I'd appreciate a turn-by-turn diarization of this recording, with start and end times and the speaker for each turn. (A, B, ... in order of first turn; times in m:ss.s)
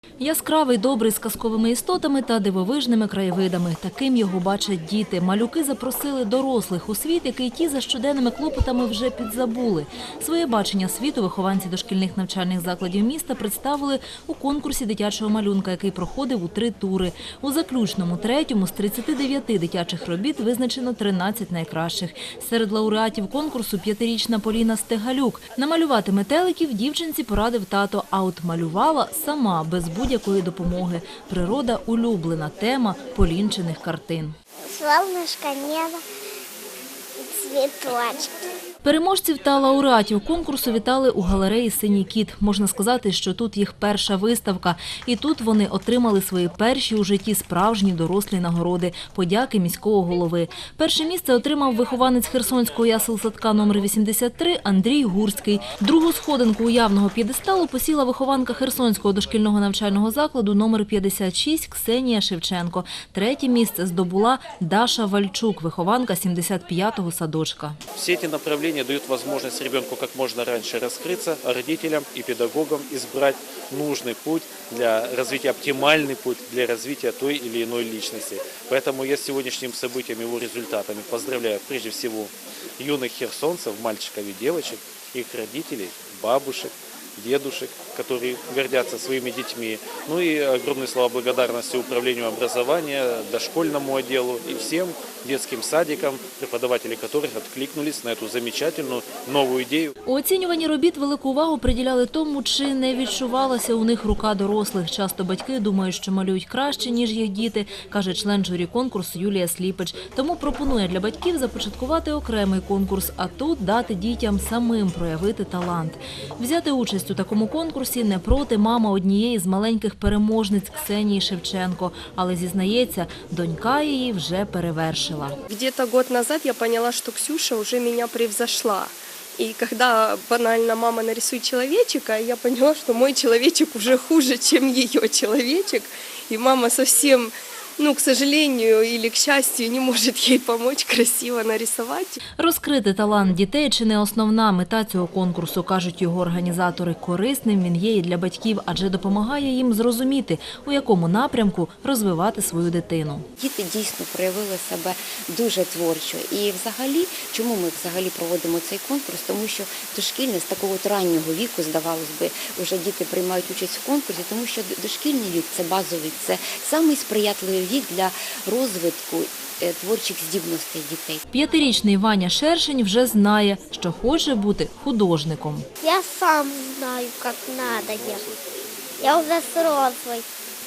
0:00.2-0:34.3 A
0:34.7-0:36.0 B
0:37.2-0:38.3 B
0:38.8-1:07.8 A
1:08.0-1:39.9 C
1:40.0-2:05.4 A
2:05.5-2:22.2 D
2:22.4-2:33.2 A
2:33.4-2:51.2 E
2:51.3-2:55.7 A
2:55.8-2:58.2 B
2:59.0-3:00.3 B